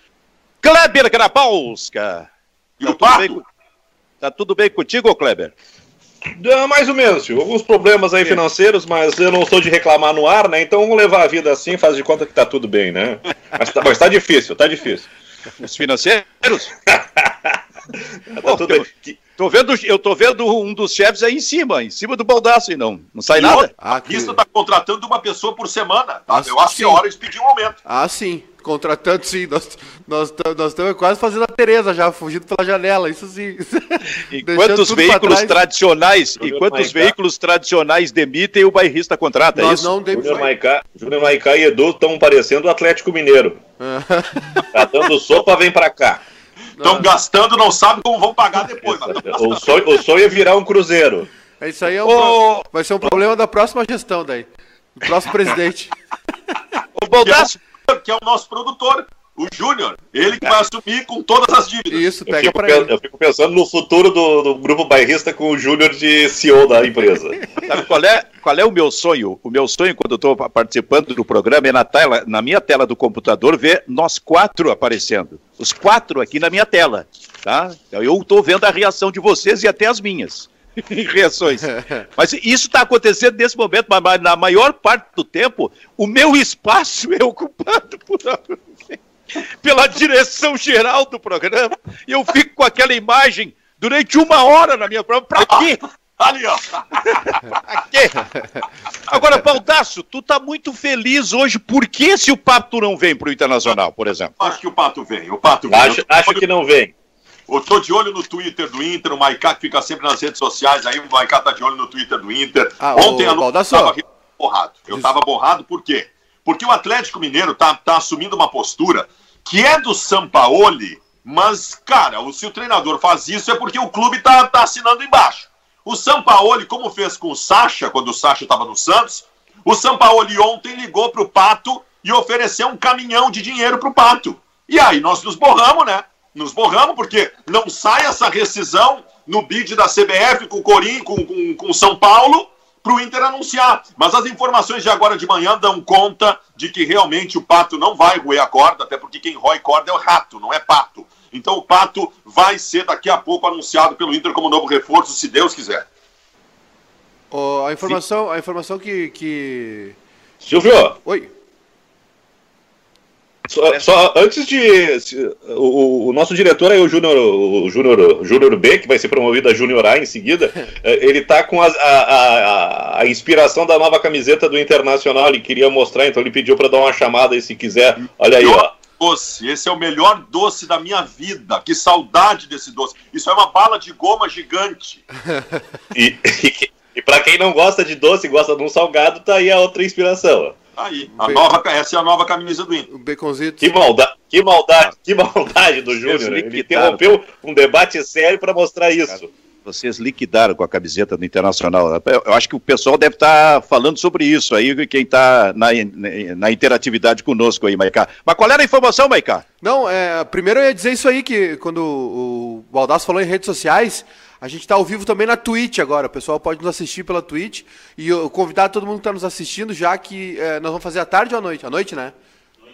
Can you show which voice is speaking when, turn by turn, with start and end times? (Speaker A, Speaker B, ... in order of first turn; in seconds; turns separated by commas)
Speaker A: 0.6-2.3, Speaker B: 2.8-3.4, Speaker A: 2.8-3.4, Speaker A: 4.2-5.5, Speaker C: 6.4-15.1, Speaker A: 15.6-16.7, Speaker C: 16.9-17.6, Speaker C: 18.3-19.2, Speaker A: 18.4-23.7, Speaker B: 23.4-27.8, Speaker D: 23.8-24.4, Speaker D: 26.3-27.0, Speaker D: 27.9-35.6, Speaker A: 34.3-39.9, Speaker C: 36.4-37.1, Speaker D: 39.5-40.5, Speaker C: 40.1-43.6, Speaker D: 43.8-44.7, Speaker C: 44.7-46.2, Speaker D: 46.8-47.1, Speaker B: 46.8-49.8, Speaker C: 48.8-51.3, Speaker D: 51.6-55.9, Speaker A: 52.0-52.7, Speaker A: 57.0-57.6, Speaker B: 57.2-62.1, Speaker D: 61.9-62.9, Speaker C: 62.3-67.4, Speaker A: 67.6-95.8, Speaker B: 95.4-97.5, Speaker A: 97.5-98.3, Speaker A: 99.1-104.3, Speaker B: 104.4-106.4, Speaker C: 105.7-106.9, Speaker B: 107.5-155.8, Speaker D: 112.8-113.9, Speaker D: 157.3-160.0, Speaker C: 160.4-161.0, Speaker D: 161.0-161.3, Speaker C: 163.5-178.7, Speaker B: 178.4-185.0, Speaker C: 185.9-190.6, Speaker B: 190.8-192.9, Speaker D: 191.2-191.5, Speaker D: 192.9-193.7, Speaker C: 193.6-199.3, Speaker A: 196.0-197.2, Speaker A: 199.7-209.4, Speaker D: 209.6-222.1